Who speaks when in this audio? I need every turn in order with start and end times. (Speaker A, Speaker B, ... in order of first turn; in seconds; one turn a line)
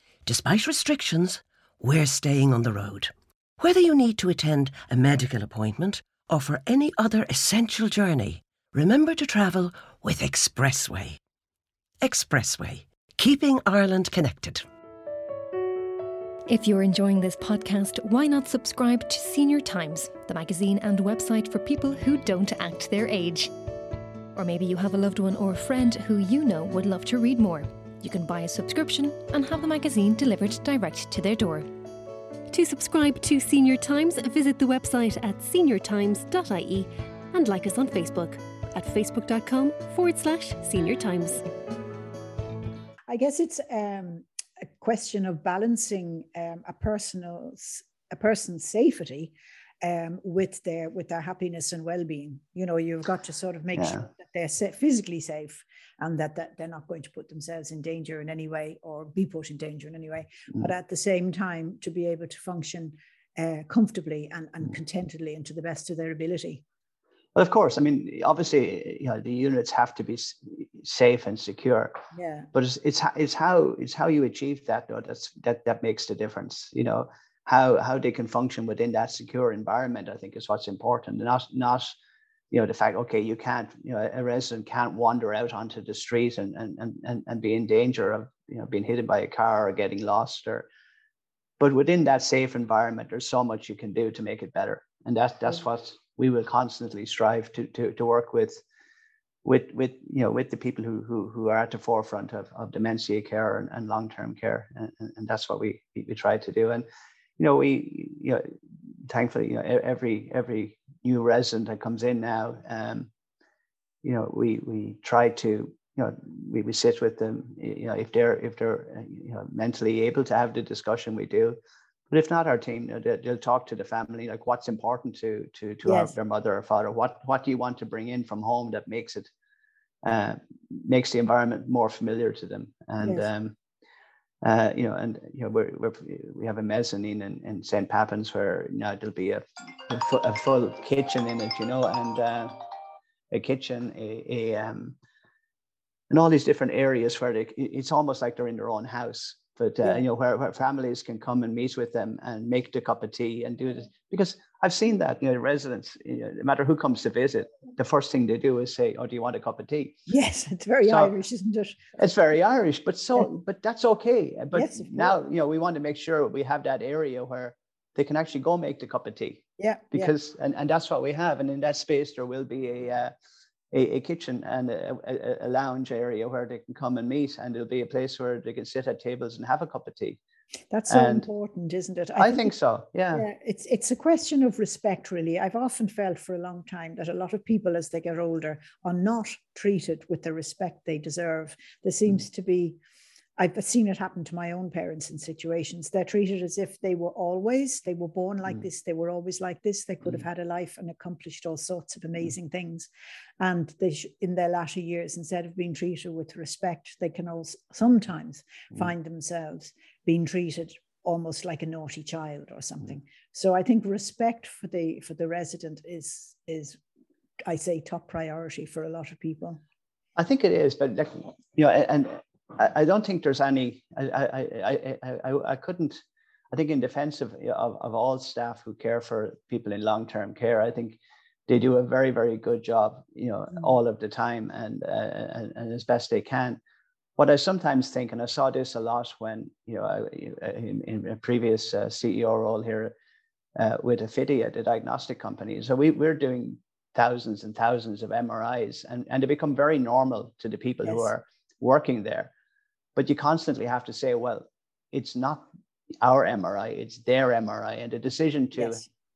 Speaker A: 0.2-11.2
Speaker A: 12.0-14.6
Speaker B: 16.5-23.5
Speaker B: 24.3-31.7
Speaker B: 32.5-41.4
Speaker C: 43.1-44.2
Speaker C: 44.8-66.6
Speaker D: 53.8-54.0
Speaker D: 67.3-72.0
Speaker C: 72.1-72.5
Speaker D: 72.5-82.0
Speaker D: 82.5-90.7
Speaker D: 91.6-98.6
Speaker D: 99.4-106.8
Speaker D: 107.4-108.5
Speaker D: 109.1-113.1
Speaker D: 114.0-121.6
Speaker D: 122.1-129.3
Speaker C: 125.8-126.1
Speaker D: 130.0-133.5
Speaker C: 133.0-133.3
Speaker D: 134.4-142.6
Speaker D: 143.3-145.0
Speaker D: 146.1-160.0
Speaker C: 160.1-161.8
Speaker D: 160.8-161.1
Speaker D: 162.0-173.1
Speaker C: 164.5-165.2
Speaker C: 169.6-170.1
Speaker D: 173.7-180.2
Speaker C: 180.7-182.5
Speaker D: 180.9-181.3
Speaker D: 182.2-183.2
Speaker C: 183.1-192.8
Speaker C: 193.4-202.9
Speaker C: 203.4-216.8
Speaker C: 217.4-219.6
Speaker D: 220.2-226.0
Speaker D: 226.5-236.6
Speaker D: 237.2-242.9
Speaker D: 243.6-252.3
Speaker D: 252.9-255.5
Speaker D: 256.0-258.8
Speaker C: 258.6-258.9